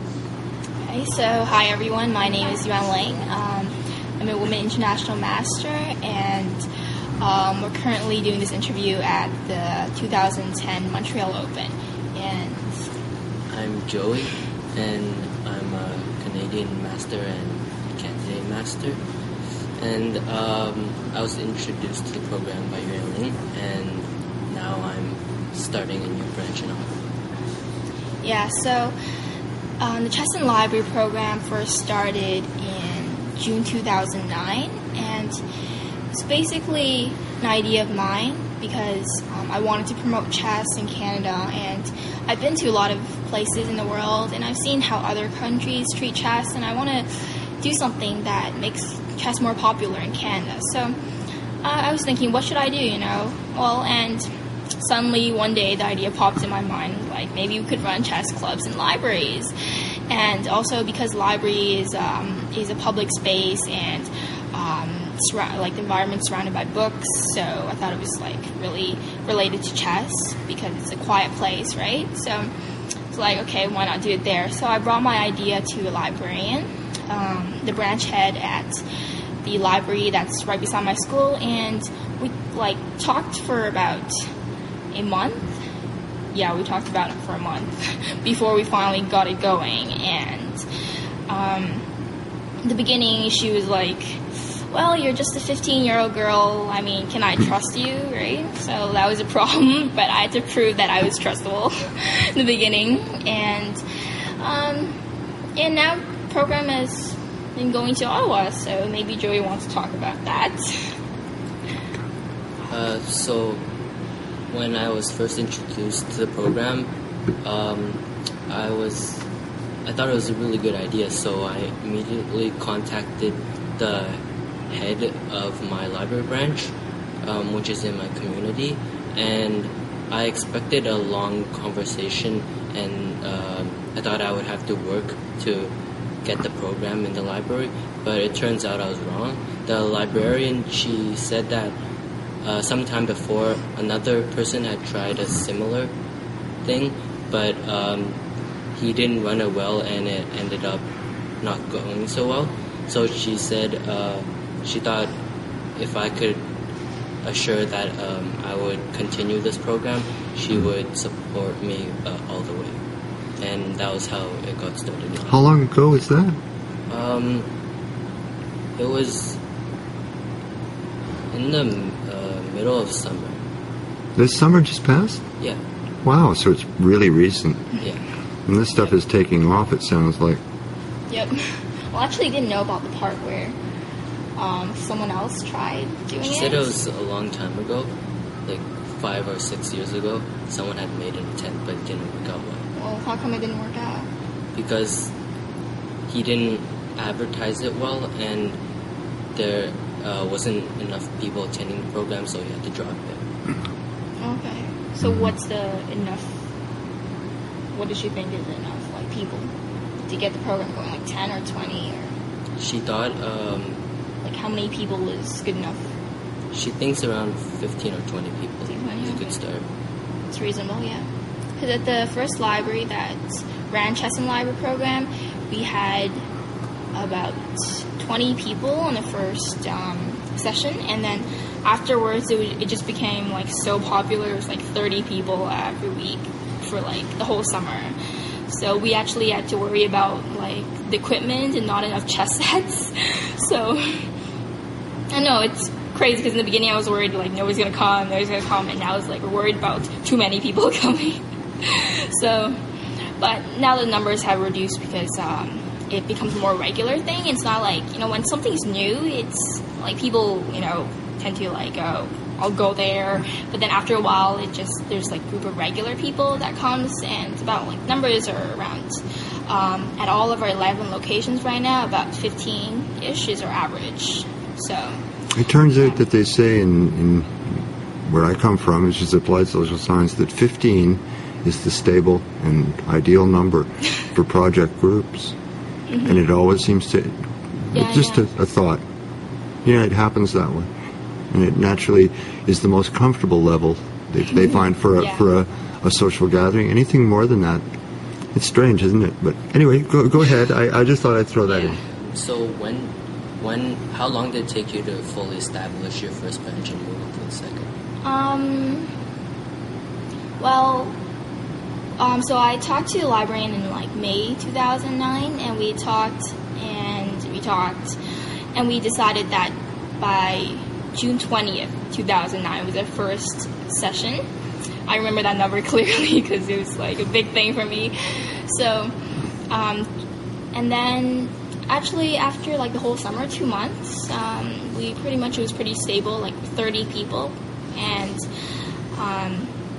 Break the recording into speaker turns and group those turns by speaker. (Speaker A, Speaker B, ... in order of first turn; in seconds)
Speaker A: 0.9-6.6, 7.2-12.7, 28.2-28.9, 29.8-35.4, 36.1-47.1, 47.6-50.9, 51.6-54.2, 54.8-59.5, 60.1-72.5, 73.1-78.8, 79.4-84.2, 84.9-85.5, 86.3-90.6, 91.3-91.8, 92.6-103.8, 104.4-105.0, 105.6-110.8, 181.1-183.6, 184.3-186.7, 192.8-194.1, 204.2-206.4, 207.7-209.5, 210.0-212.1, 214.2-215.9, 218.7-219.3, 220.3-226.2, 226.9-237.9, 238.5-244.0, 245.1-252.5, 253.2-275.0, 285.9-286.2, 287.7-288.2, 294.3-295.2, 301.4-301.8, 308.0-308.9, 310.4-310.9, 312.0-317.9, 318.5-324.2, 324.9-328.9, 329.5-329.9, 330.5-338.2, 338.9-339.5
Speaker B: 13.5-19.0, 19.8-27.0, 112.7-113.6, 114.5-116.9, 117.4-119.2, 119.8-135.7, 136.2-141.8, 142.4-145.9, 146.6-148.2, 148.7-150.8, 151.4-155.1, 155.8-156.4, 157.2-162.8, 163.4-165.4, 166.9-167.5, 168.8-169.4, 171.3-173.4, 186.2-187.9, 188.4-192.7, 194.5-195.1, 196.1-198.6, 199.3-203.2, 212.6-213.8, 216.5-219.7, 302.0-307.7
Speaker C: 165.3-166.3, 174.2-175.2, 176.0-177.7, 178.5-180.4, 275.3-277.5, 278.1-285.3, 286.0-287.1, 287.7-288.8, 289.6-290.7, 291.3-297.6, 298.3-301.8